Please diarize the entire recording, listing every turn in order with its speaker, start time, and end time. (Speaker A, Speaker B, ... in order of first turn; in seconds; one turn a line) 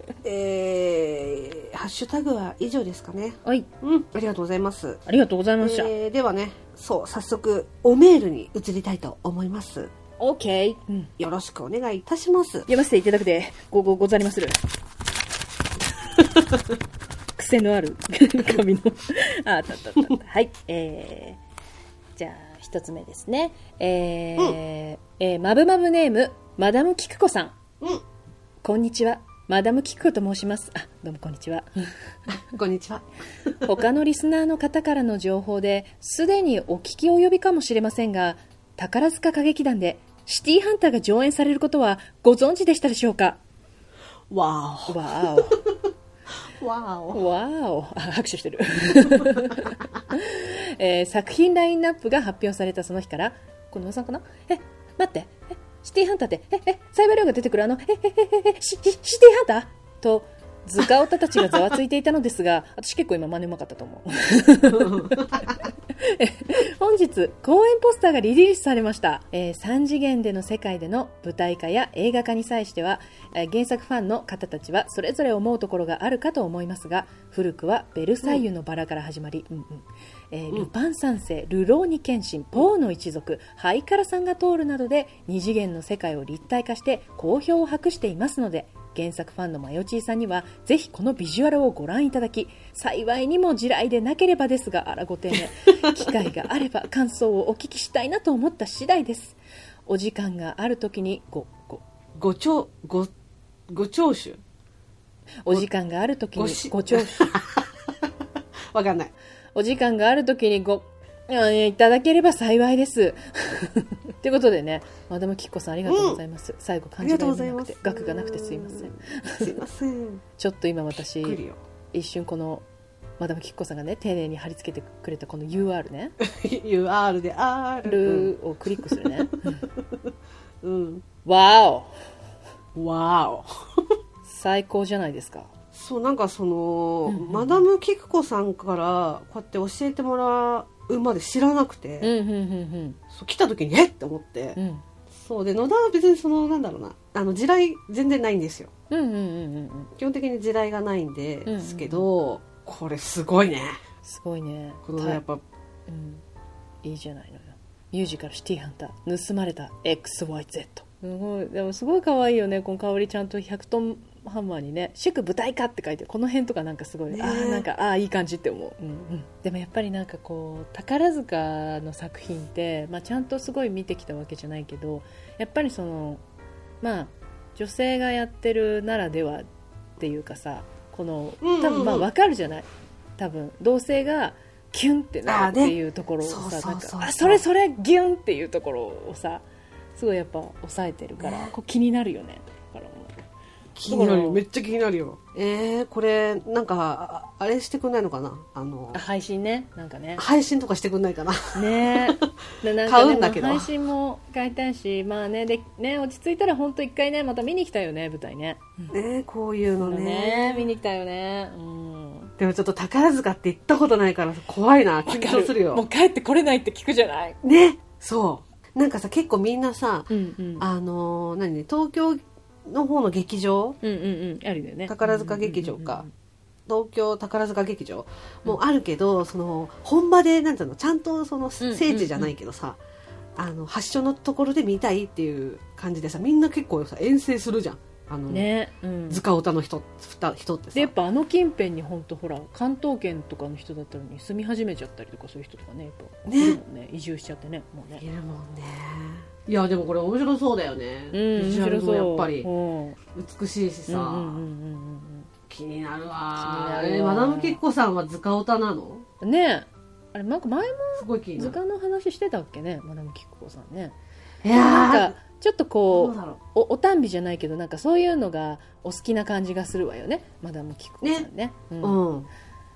Speaker A: 0.2-5.0
Speaker B: 5.1-5.9
Speaker A: 5.6-9.9
Speaker B: 10.2-11.1
Speaker A: 11.2-12.7
Speaker B: 12.7-14.6
Speaker B: 17.4-21.4
Speaker B: 22.2-27.6
Speaker B: 28.6-31.7
Speaker A: 32.5-33.0
Speaker B: 33.6-43.4
Speaker A: 44.3-45.8
Speaker B: 44.9-45.6
Speaker A: 46.6-47.2
Speaker B: 47.1-101.8
Speaker A: 49.2-49.5
Speaker A: 64.7-65.7
Speaker A: 102.2-103.1
Speaker A: 103.7-104.4
Speaker B: 105.4-107.3
Speaker A: 106.4-108.1
Speaker A: 108.7-109.1
Speaker B: 109.5-119.5
Speaker A: 115.9-116.2
Speaker A: 117.0-120.2
Speaker B: 120.4-121.4
Speaker A: 121.2-121.6
Speaker B: 121.9-122.7
Speaker B: 123.2-126.2
Speaker A: 126.2-130.0
Speaker B: 127.8-129.7
Speaker A: 130.6-131.1
Speaker B: 131.2-131.9
Speaker A: 132.8-133.5
Speaker B: 134.3-135.5
Speaker A: 135.7-142.1
Speaker B: 137.1-137.7
Speaker B: 142.0-143.0
Speaker A: 143.1-144.6
Speaker B: 144.6-144.8
Speaker A: 145.1-148.7
Speaker B: 148.9-149.9
Speaker A: 150.0-153.8
Speaker B: 151.5-152.1
Speaker B: 154.0-155.2
Speaker A: 154.8-155.4
Speaker B: 155.9-156.2
Speaker B: 156.8-176.2
Speaker A: 167.1-167.7
Speaker B: 176.8-179.5
Speaker B: 180.0-189.4
Speaker A: 181.4-182.1
Speaker A: 185.3-187.4
Speaker B: 190.0-193.2
Speaker A: 191.2-191.5
Speaker A: 193.8-199.0
Speaker B: 193.9-194.4
Speaker B: 198.9-200.2
Speaker A: 200.2-202.2
Speaker B: 201.6-208.9
Speaker A: 202.8-203.7
Speaker A: 208.9-210.7
Speaker B: 209.8-212.3
Speaker A: 212.4-215.8
Speaker B: 215.1-217.4
Speaker A: 217.4-223.8
Speaker B: 220.1-220.7
Speaker B: 223.8-226.1
Speaker A: 224.9-226.1
Speaker A: 226.7-232.8
Speaker B: 231.6-232.3
Speaker A: 233.4-238.5
Speaker B: 238.3-239.2
Speaker A: 239.1-240.9
Speaker B: 240.8-248.0
Speaker A: 246.3-246.6
Speaker A: 248.0-252.5
Speaker B: 251.1-253.0
Speaker A: 253.2-254.4
Speaker B: 253.9-255.3
Speaker A: 255.5-259.0
Speaker B: 256.4-257.6
Speaker B: 259.2-264.0
Speaker A: 261.0-261.6
Speaker A: 264.4-265.2
Speaker B: 264.5-272.0
Speaker A: 265.9-266.4
Speaker A: 271.0-271.3
Speaker A: 271.8-272.3